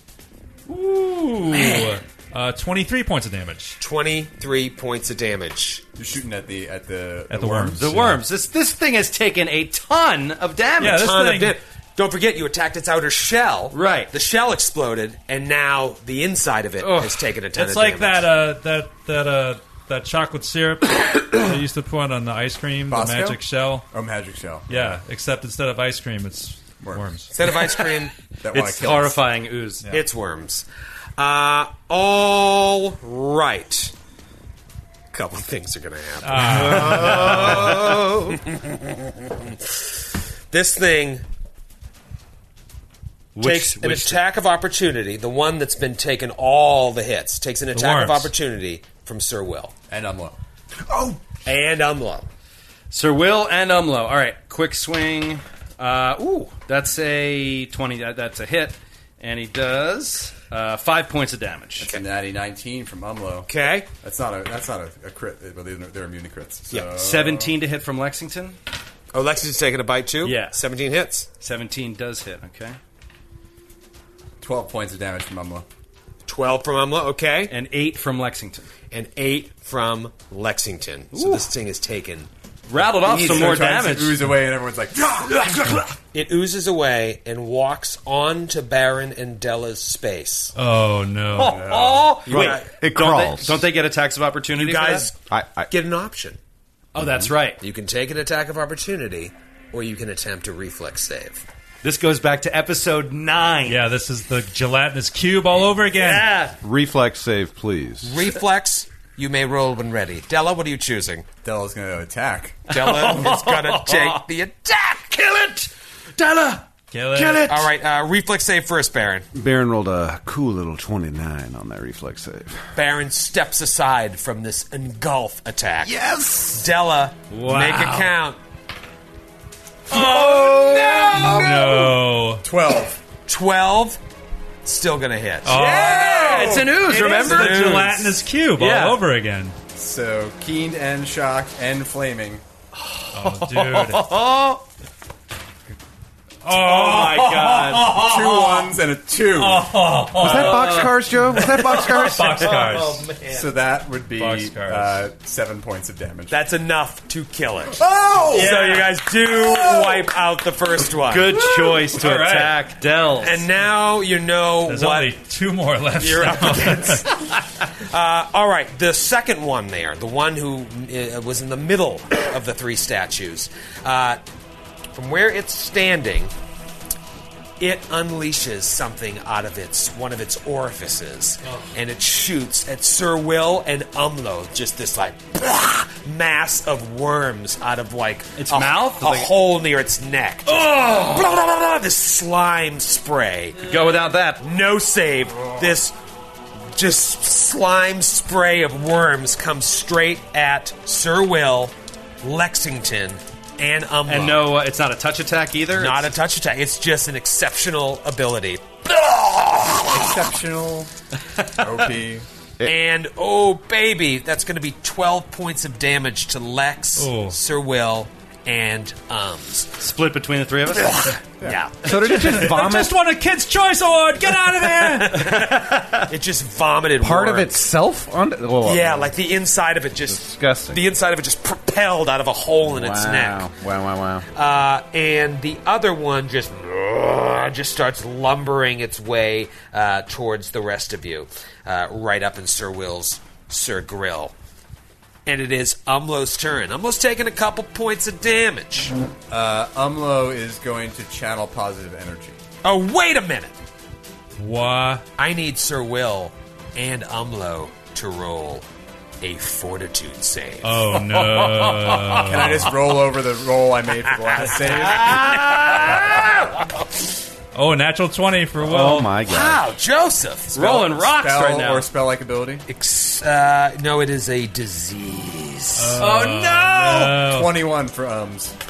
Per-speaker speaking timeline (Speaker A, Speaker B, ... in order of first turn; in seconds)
Speaker A: 0.7-3.8, 7.3-8.2, 10.8-11.6, 17.6-23.9, 24.7-27.3, 36.2-37.6, 47.7-48.3, 90.5-91.7, 103.7-106.3, 116.9-117.5, 131.3-132.4, 135.4-139.6, 143.1-144.1, 146.4-148.5, 149.3-150.8, 151.4-153.1, 154.2-155.0, 158.3-158.9, 161.3-162.6, 164.7-167.0, 217.0-217.4, 222.0-225.4, 254.4-255.1, 260.6-262.7, 267.6-269.1, 275.8-277.6
Speaker B: 1.5-2.0, 3.8-5.8, 10.8-18.3, 27.3-28.1, 29.9-30.7, 31.2-33.9, 35.1-40.0, 40.5-41.2, 43.4-49.7, 51.4-52.3, 63.5-63.9, 69.1-71.3, 76.3-77.5, 78.9-82.3, 83.1-83.6, 86.1-90.5, 92.3-92.7, 94.6-95.2, 95.7-96.4, 97.6-101.4, 108.0-111.3, 112.7-115.2, 117.5-119.3, 122.8-125.9, 126.5-128.4, 129.9-131.5, 133.3-134.0, 134.6-138.3, 156.3-161.4, 163.2-165.1, 166.0-174.2, 174.9-176.3, 177.6-193.7, 194.4-196.0, 196.7-204.5, 205.7-210.2, 212.6-219.8, 220.7-222.5, 224.8-227.7, 228.6-233.5, 234.3-244.3, 245.3-248.9, 252.6-253.6, 255.2-258.7, 259.2-262.6, 264.3-267.1, 269.2-271.1, 272.7-276.1
Speaker C: 6.0-7.9, 22.9-25.0, 26.8-27.1, 28.4-29.2, 49.9-50.4, 61.8-63.5, 64.0-67.6, 74.4-75.7, 82.8-85.8, 91.4-92.2, 111.4-112.7, 132.4-133.0, 135.9-136.8, 139.8-142.4, 147.9-149.7, 153.2-156.4, 157.8-158.5, 209.9-210.9, 211.6-212.3, 249.3-252.4, 262.3-265.4, 271.0-272.7, 277.1-278.6
Speaker D: 7.8-11.1, 13.7-14.1, 16.8-17.3, 28.5-29.9, 36.5-38.3, 43.4-44.2, 52.9-61.9, 66.7-68.6, 70.2-70.6, 71.4-72.8, 77.5-78.7, 81.1-81.5, 82.7-84.3, 91.3-95.1, 97.0-97.6, 101.8-103.8, 105.9-106.6, 112.7-114.2, 115.1-117.7, 125.9-126.4, 127.3-128.1, 129.9-131.9, 135.5-137.9, 138.6-139.0, 142.8-144.6, 146.5-148.1, 150.2-153.4, 161.1-163.5, 188.4-189.3, 190.5-191.3, 193.6-194.4, 204.1-206.1, 219.8-221.1, 225.1-226.0, 264.7-266.3, 270.5-271.9, 276.0-277.2
Speaker E: 92.2-93.6, 95.3-95.7, 97.0-97.3, 106.6-108.2, 119.3-122.6, 150.2-152.5, 221.8-222.9, 227.0-229.2, 230.1-230.8, 232.7-234.3, 268.6-269.6